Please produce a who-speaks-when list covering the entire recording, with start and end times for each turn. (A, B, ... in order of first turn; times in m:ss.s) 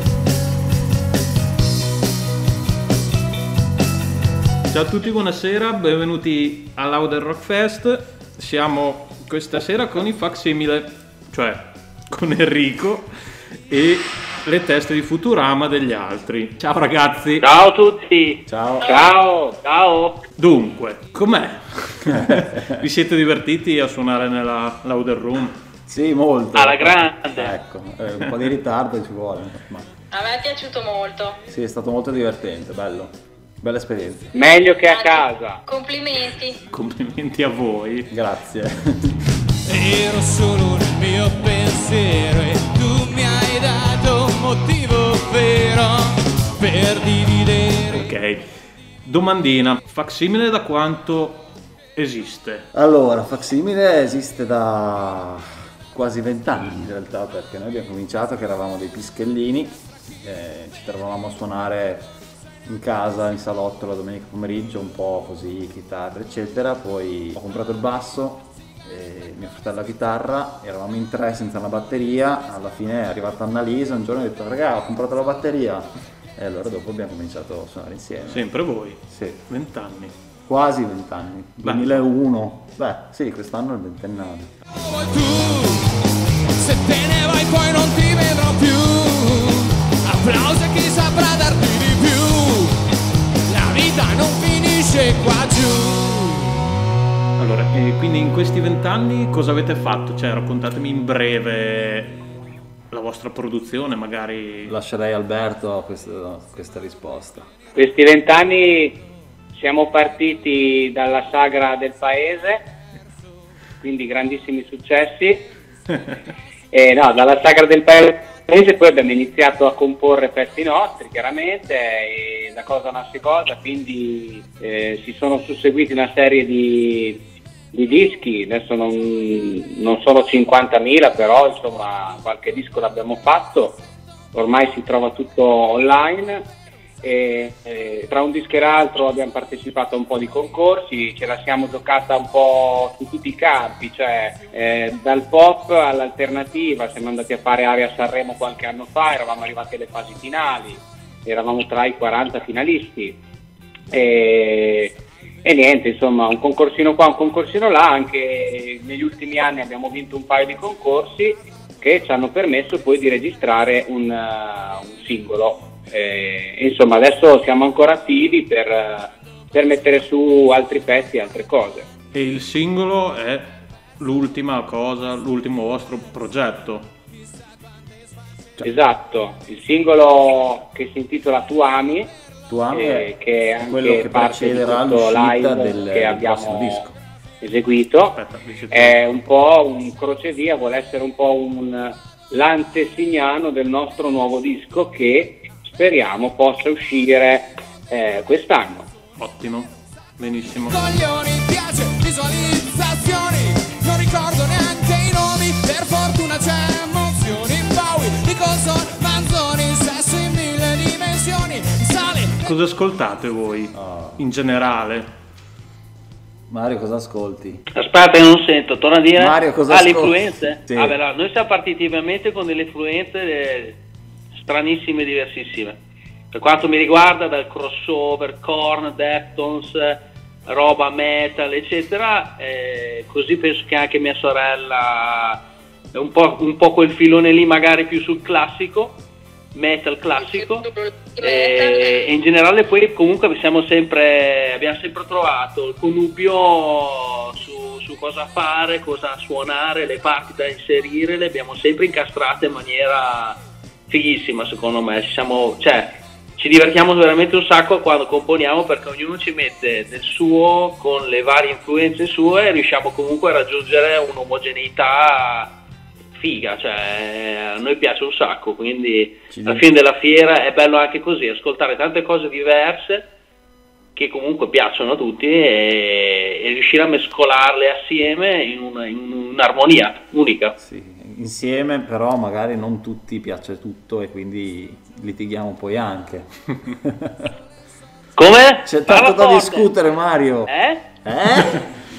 0:04.7-0:13.1 A
0:13.7-0:17.5 A
0:17.4-0:20.2 B
0:18.5-0:18.9 C
0:18.8-0:19.6 D
0:20.4-0:25.6 A
0:25.9-0:29.9 C
0:26.6-0:27.5 B
0:30.1-0:31.4 E
0:31.5-0:34.3 C
0:34.3-0:35.6 D
0:34.9-0:36.6 E
0:36.7-0:38.1 A
0:38.1-0:39.2 C
0:39.7-0:48.0 F
0:47.9-0:48.5 A
0:49.0-0:52.7 A
0:52.7-1:02.1 C
1:02.7-1:18.5 C
1:18.3-1:20.2 A
1:19.1-1:19.4 C
1:20.5-1:24.5 C
1:21.6-1:22.0 A
1:24.8-1:25.9 F
1:26.6-1:32.8 F
1:33.5-1:36.6 F
1:37.4-1:42.2 A
1:42.9-1:44.7 A
1:44.7-1:47.5 C
1:47.8-1:49.0 D
1:49.5-1:52.6 D
1:53.8-1:55.4 D
1:56.7-2:07.2 D
2:07.7-2:13.8 D
2:14.3-2:16.4 D
2:17.0-2:33.2 D
2:33.9-2:51.8 D
2:52.1-2:53.5 A
2:54.0-2:56.9 A
2:58.6-3:02.1 D
3:02.5-3:07.0 C
3:02.7-3:06.8 D
3:07.4-3:08.2 D
3:08.2-3:09.2 A
3:08.7-3:18.9 D
3:19.2-3:21.2 A
3:20.7-3:32.4 F
3:32.4-3:35.1 A
3:33.7-3:34.2 C
3:36.5-3:37.6 C
3:37.8-3:43.8 B
3:39.2-3:41.0 C
3:44.4-3:45.8 B
3:46.3-3:55.4 B
3:56.0-3:59.0 B
3:59.6-4:00.7 B
4:00.2-4:02.1 E
4:01.2-4:13.4 B
4:13.9-4:25.5 B
4:26.2-4:33.0 B
4:29.3-4:29.6 C
4:34.0-4:40.6 B
4:40.6-4:47.3 C
4:48.2-4:49.7 B
4:48.6-4:50.5 C
4:50.5-4:50.8 B
4:51.0-4:51.7 C